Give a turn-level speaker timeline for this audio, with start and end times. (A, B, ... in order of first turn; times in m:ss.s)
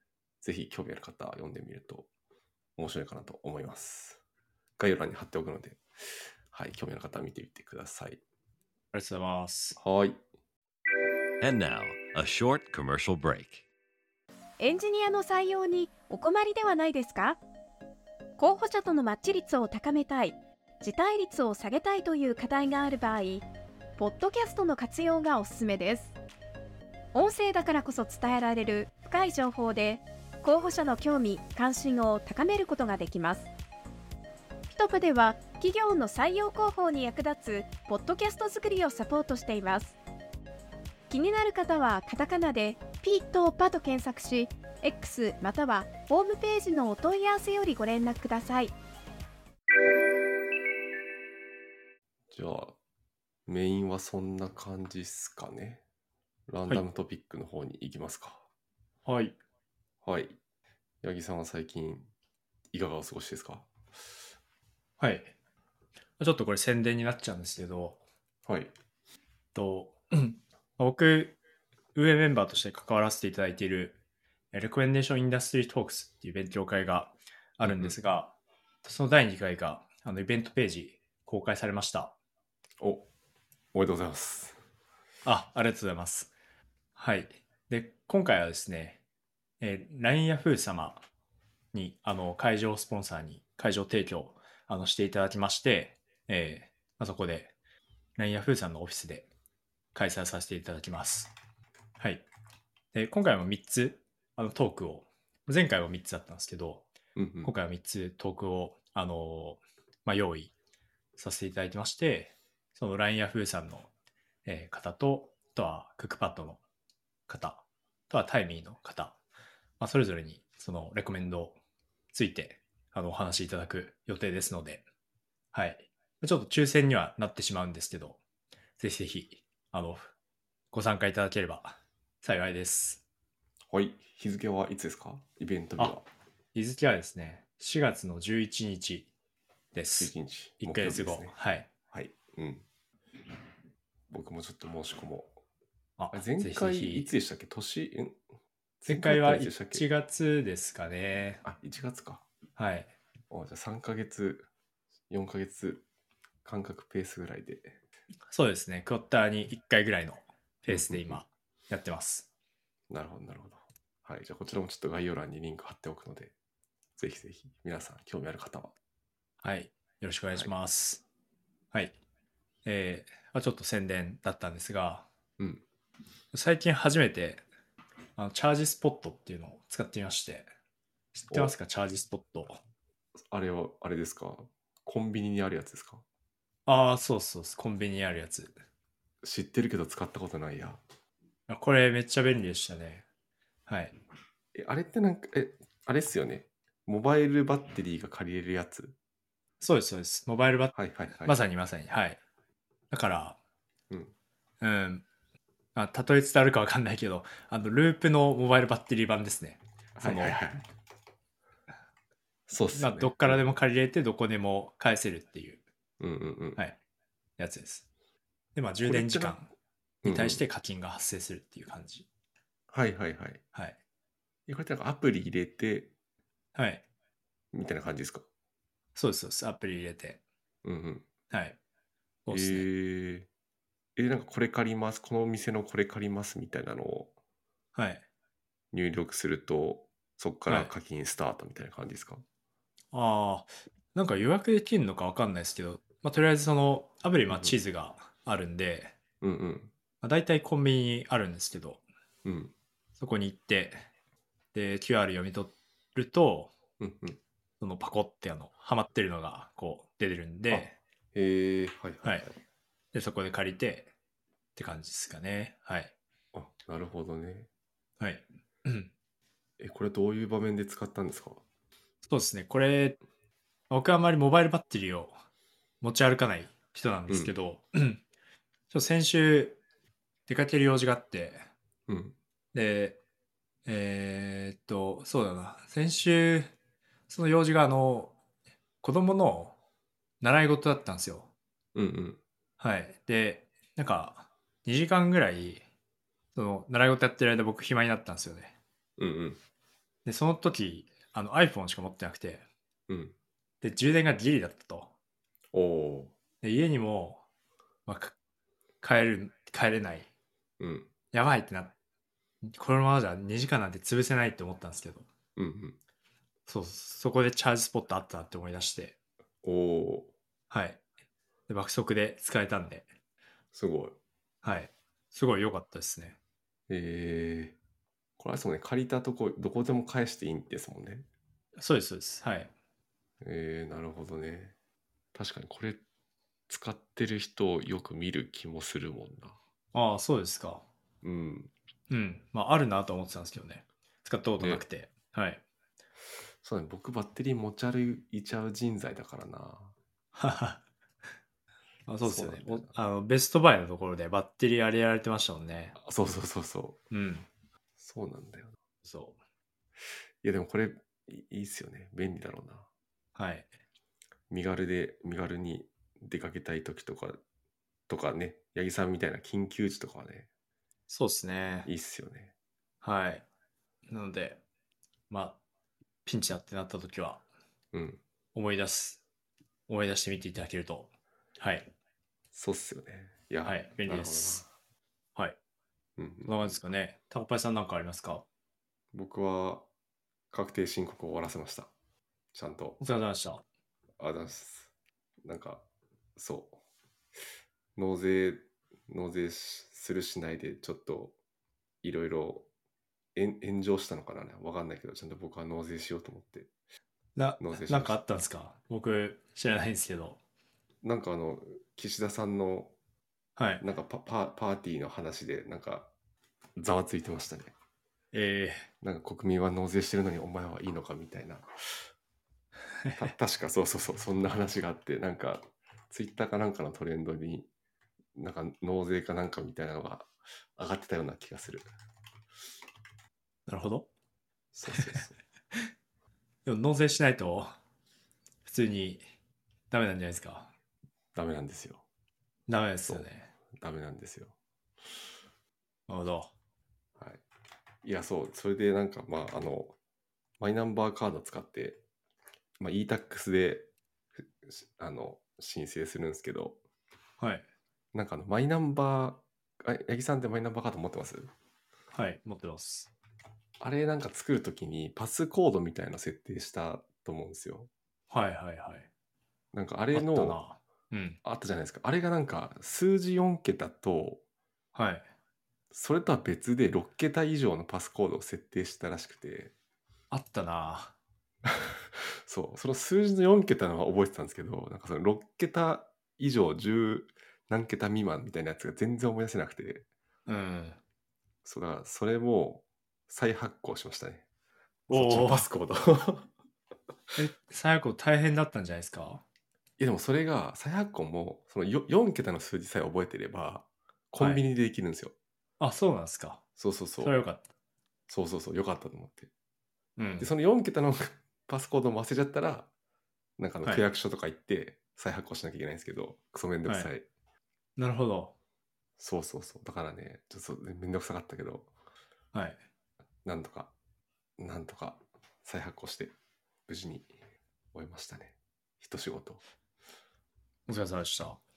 0:00.4-0:02.1 A
0:02.8-0:04.2 A
0:04.8-0:05.8 A
0:06.5-0:08.2 A
0:08.9-0:09.8 B
0:09.8-0:10.2 A
0:11.4-0:13.6 C
0:14.6-0:17.4 D
0:18.4-0:23.4 D
0:24.0-0:26.1 D
0:27.1-0:33.5 D
0:34.7-0:40.0 D
0:41.1-0:48.7 D
0:52.3-0:52.8 A
0:53.4-0:55.8 A
0:56.5-0:58.4 A
0:59.0-0:59.4 B
1:00.0-1:00.4 A
1:01.0-1:02.1 A
1:02.7-1:03.7 A
1:05.0-1:05.3 B
1:06.2-1:08.0 B
1:08.4-1:08.7 A
1:09.5-1:11.4 B
1:11.9-1:14.0 B
1:14.5-1:22.2 B
1:17.6-1:18.0 A
1:22.8-1:23.1 A
1:23.7-1:24.6 A
1:25.2-1:26.3 B
1:27.0-1:29.0 B
1:29.6-1:31.0 B
1:31.7-1:37.5 B
1:38.2-1:39.3 B
1:39.9-1:41.3 B
1:42.0-1:42.2 B
1:42.9-1:46.9 B
1:47.2-1:47.5 A
1:47.4-1:50.5 B
1:51.2-1:53.9 B
1:54.4-1:56.6 B
1:57.3-1:59.2 B
1:59.8-2:01.6 B
2:02.1-2:04.8 B
2:05.5-2:08.2 B
2:08.8-2:10.1 B
2:10.7-2:13.0 B
2:13.7-2:16.0 A
2:16.5-2:19.1 B
2:19.7-2:21.7 B
2:20.0-2:21.3 A
2:21.9-2:22.6 A
2:24.1-2:25.4 A
2:26.0-2:27.1 B
2:26.1-2:28.2 A
2:28.8-2:29.9 A
2:28.9-2:31.4 B
2:31.4-2:32.2 A
2:32.6-2:32.9 B
2:33.3-2:34.5 A
2:35.1-2:35.8 A
2:36.4-2:37.8 A
2:38.3-2:42.3 B
2:40.7-2:41.2 A
2:42.9-2:46.3 A
2:47.0-2:48.7 A
2:49.4-2:51.0 B
2:52.6-2:55.1 B
2:55.4-2:55.6 A
2:56.3-2:57.4 B
2:58.2-3:00.5 B
3:01.1-3:02.6 B
3:03.3-3:06.0 A
3:06.6-3:08.5 B
3:09.2-3:10.8 A
3:11.5-3:13.0 B
3:13.7-3:13.9 B
3:14.5-3:19.0 A
3:19.6-3:22.2 B
3:20.7-3:21.4 A
3:22.9-3:23.4 B
3:24.6-3:25.0 B
3:25.7-3:30.6 B
3:30.0-3:30.6 A
3:32.5-3:33.4 A
3:32.8-3:35.6 B
3:36.0-3:36.6 A
3:37.4-3:37.9 B
3:38.5-3:39.5 B
3:38.8-3:39.4 A
3:40.0-3:40.4 A
3:40.0-3:42.0 B
3:42.7-3:43.4 A
3:44.5-3:45.9 A
3:46.5-3:46.8 B
3:47.5-3:48.2 A
3:49.0-3:50.2 B
3:50.6-3:51.1 A
3:51.3-3:51.6 B
3:52.2-3:52.7 B
3:52.3-3:53.3 A
3:54.0-3:57.1 A
3:57.7-3:58.0 B
3:58.7-4:02.2 A
4:02.9-4:08.9 B
4:07.3-4:07.6 A
4:09.2-4:09.7 A
4:10.0-4:11.8 B
4:12.2-4:12.5 A
4:13.0-4:13.8 B
4:14.5-4:16.5 B
4:16.8-4:17.2 A
4:17.6-4:20.8 B
4:20.5-4:22.4 A
4:22.9-4:23.9 B
4:24.6-4:25.9 B
4:26.3-4:27.5 A
4:28.0-4:28.9 B
4:29.6-4:31.4 A
4:32.1-4:33.0 B
4:33.7-4:35.2 B
4:35.8-4:38.0 B
4:37.1-4:37.3 A
4:38.7-4:39.6 B
4:40.3-4:41.4 B
4:41.9-4:42.2 A
4:42.5-4:43.0 B
4:43.6-4:46.5 B
4:47.1-4:48.1 B
4:48.8-4:49.6 B
4:50.2-4:51.3 B
4:51.7-4:52.2 A
4:52.6-4:55.6 B
4:56.3-4:58.5 B
4:59.0-4:59.4 A
5:00.0-5:02.4 B
5:02.9-5:03.1 A
5:03.6-5:04.9 B
5:05.5-5:06.1 A
5:06.4-5:07.2 B
5:07.8-5:08.2 B
5:08.8-5:10.1 B
5:10.6-5:10.9 A
5:11.1-5:11.7 B
5:12.4-5:15.1 B
5:15.4-5:15.8 A
5:16.5-5:19.0 B
5:19.4-5:20.1 A
5:20.5-5:20.8 B
5:21.5-5:22.9 B
5:23.5-5:24.0 A
5:24.4-5:26.2 B
5:26.7-5:27.6 A
5:28.2-5:31.1 A
5:31.6-5:32.5 B
5:33.2-5:34.5 A
5:35.1-5:35.8 A
5:36.5-5:39.4 A
5:39.7-5:40.6 B
5:41.0-5:41.5 A
5:41.9-5:45.4 B
5:46.4-5:49.7 A
5:50.1-5:50.6 B
5:51.9-5:55.8 B
5:52.0-5:52.7 A
5:55.8-5:56.8 A
5:56.9-5:57.3 B
5:57.8-5:58.6 A
5:58.8-5:59.2 B
6:00.2-6:02.7 A
6:03.1-6:03.5 B
6:04.3-6:07.2 A
6:07.9-6:10.3 A
6:10.9-6:11.7 B
6:11.6-6:12.3 A
6:12.8-6:13.2 B
6:13.9-6:14.4 B
6:15.1-6:15.4 B
6:16.0-6:17.2 B
6:17.7-6:18.0 A
6:18.3-6:19.0 B
6:19.7-6:21.7 B
6:22.3-6:24.5 A
6:23.4-6:24.4 B
6:26.0-6:26.6 A
6:26.2-6:28.2 B
6:28.9-6:29.7 A
6:30.3-6:31.7 A
6:32.3-6:32.8 A
6:32.8-6:33.4 B
6:34.0-6:34.7 A
6:35.2-6:35.6 A
6:36.2-6:36.6 A
6:37.8-6:41.2 A
6:41.8-6:42.5 A
6:43.1-6:46.5 A
6:47.2-6:50.2 B
6:47.4-6:48.0 A
6:50.8-6:52.7 A
6:53.4-6:53.6 B
6:53.6-6:55.9 A
6:56.6-6:57.5 A
6:58.1-6:58.7 B
6:58.8-7:01.9 A
7:02.8-7:03.1 B
7:03.0-7:07.5 A
7:08.1-7:11.7 A
7:13.5-7:13.9 B
7:14.5-7:15.1 A
7:14.7-7:15.7 B
7:16.4-7:17.5 B
7:18.4-7:19.0 B
7:19.7-7:20.5 B
7:21.1-7:21.8 A
7:22.5-7:23.3 B
7:22.8-7:24.4 A
7:25.9-7:26.3 B
7:27.0-7:27.2 A
7:27.8-7:29.8 A
7:30.4-7:31.8 A
7:32.6-7:36.6 A
7:37.2-7:37.4 B
7:37.9-7:41.3 A
7:41.9-7:42.9 B
7:43.6-7:47.7 A
7:48.1-7:48.9 B
7:49.5-7:50.4 A
7:49.9-7:51.2 B
7:51.2-7:54.2 A
7:54.7-7:55.1 B
7:55.7-7:59.5 A
8:00.1-8:00.9 B
8:01.4-8:09.9 A
8:10.2-8:10.8 B
8:11.4-8:14.2 A
8:14.9-8:16.3 A
8:14.9-8:15.5 B
8:17.2-8:19.2 B
8:19.8-8:25.1 A
8:24.2-8:24.4 B
8:25.6-8:26.4 B
8:26.6-8:27.1 A
8:27.0-8:27.4 B
8:28.1-8:29.3 A
8:30.0-8:30.3 B
8:30.2-8:32.7 A
8:33.4-8:37.0 A
8:37.8-8:38.3 B
8:39.0-8:41.7 A
8:42.3-8:42.6 B
8:43.2-8:43.7 A
8:44.4-8:46.1 A
8:46.7-8:47.1 A
8:47.7-8:49.4 A
8:50.7-8:51.4 B